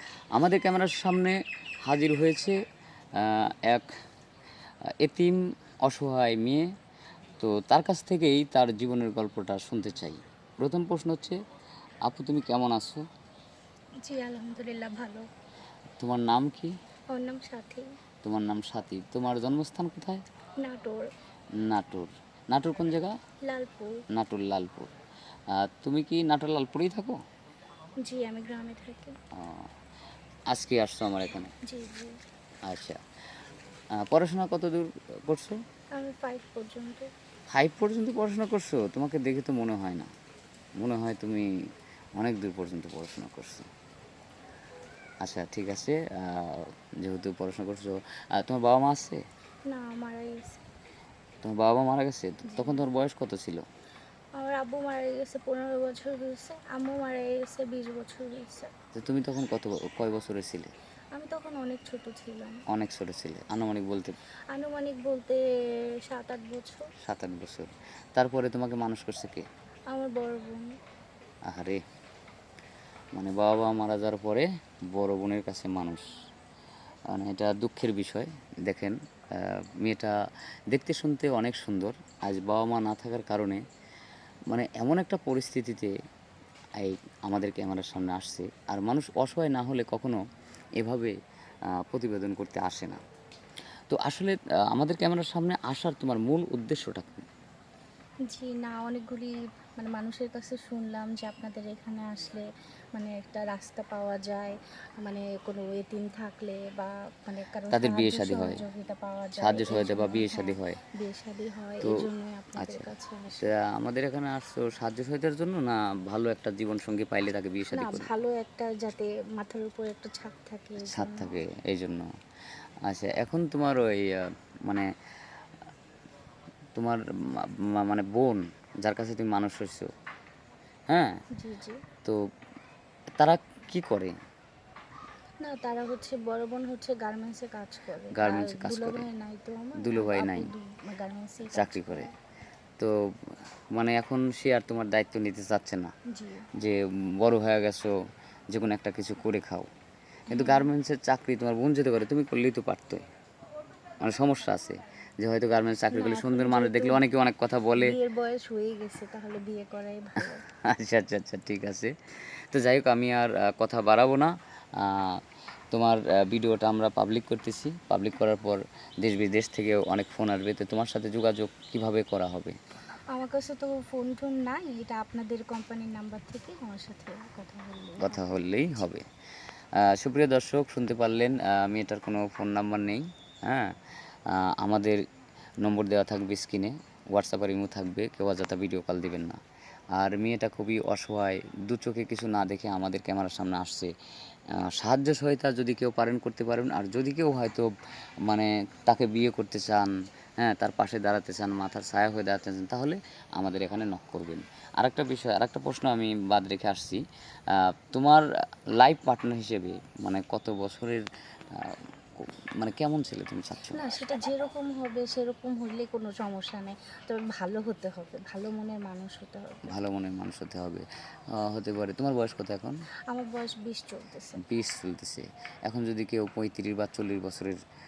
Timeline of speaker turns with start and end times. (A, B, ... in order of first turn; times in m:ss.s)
0:00.4-0:02.6 A
0:03.2-0:03.9 A
0:05.0-0:06.7 A
0:07.4-0:11.4 A
0:12.0-0:13.1 A
0:14.0-0:15.3 B
0:16.0-0:16.7 A
0:17.1-0:17.9 B
0:18.2-0:20.2 A
0:20.6-0:21.1 B
0:21.6-0:23.2 A
0:23.5-0:24.0 B
0:24.1-0:24.9 A
0:25.5-0:27.2 A
0:28.0-0:29.2 B
0:29.4-0:29.7 A
0:30.5-0:31.5 A
0:31.6-0:32.2 B
0:32.7-0:33.0 A
0:34.0-0:35.6 A
0:36.0-0:37.1 B
0:37.5-0:40.1 A
0:40.8-0:41.5 A
0:42.2-0:43.7 A
0:45.2-0:49.2 A
0:49.7-0:50.6 B
0:51.4-0:53.6 A
0:52.4-0:52.8 B
0:54.4-0:58.7 B
0:59.0-1:00.7 A
1:01.2-1:02.6 B
1:02.7-1:04.2 A
1:04.5-1:05.4 B
1:06.0-1:06.9 B
1:07.0-1:09.5 A
1:09.9-1:10.7 B
1:11.5-1:11.8 A
1:13.2-1:16.1 A
1:17.1-1:20.1 A
1:20.7-1:23.6 A
1:24.5-1:26.0 A
1:26.8-1:30.2 A
1:30.8-1:31.1 A
1:31.8-1:33.0 A
1:33.9-1:37.3 A
1:38.3-1:53.5 B
1:47.7-1:48.6 A
1:49.4-1:50.8 A
1:52.6-1:52.9 A
1:53.4-1:58.1 A
1:57.7-2:01.4 B
2:00.8-2:02.1 A
2:02.9-2:04.9 A
2:06.8-2:09.9 A
2:10.9-2:11.2 A
2:11.4-2:11.8 B
2:13.2-2:14.2 A
2:15.4-2:22.1 B
2:18.1-2:19.0 A
2:19.8-2:20.5 A
2:21.5-2:22.1 A
2:22.8-2:25.9 A
2:26.1-2:26.5 B
2:26.6-2:28.0 A
2:28.5-2:29.7 A
2:30.3-2:33.0 A
2:30.3-2:30.7 B
2:34.0-2:38.0 A
2:35.9-2:37.0 B
2:37.8-2:40.5 B
2:40.6-2:52.6 A
2:53.1-2:58.4 B
2:58.0-2:59.1 A
2:59.8-3:05.0 A
3:05.6-3:09.4 A
3:10.0-3:13.9 A
3:14.6-3:17.7 A
3:18.2-3:28.2 A
3:28.8-3:34.0 A
3:33.7-3:39.8 B
3:39.7-3:42.8 A
3:43.1-3:44.4 B
3:44.4-3:47.6 A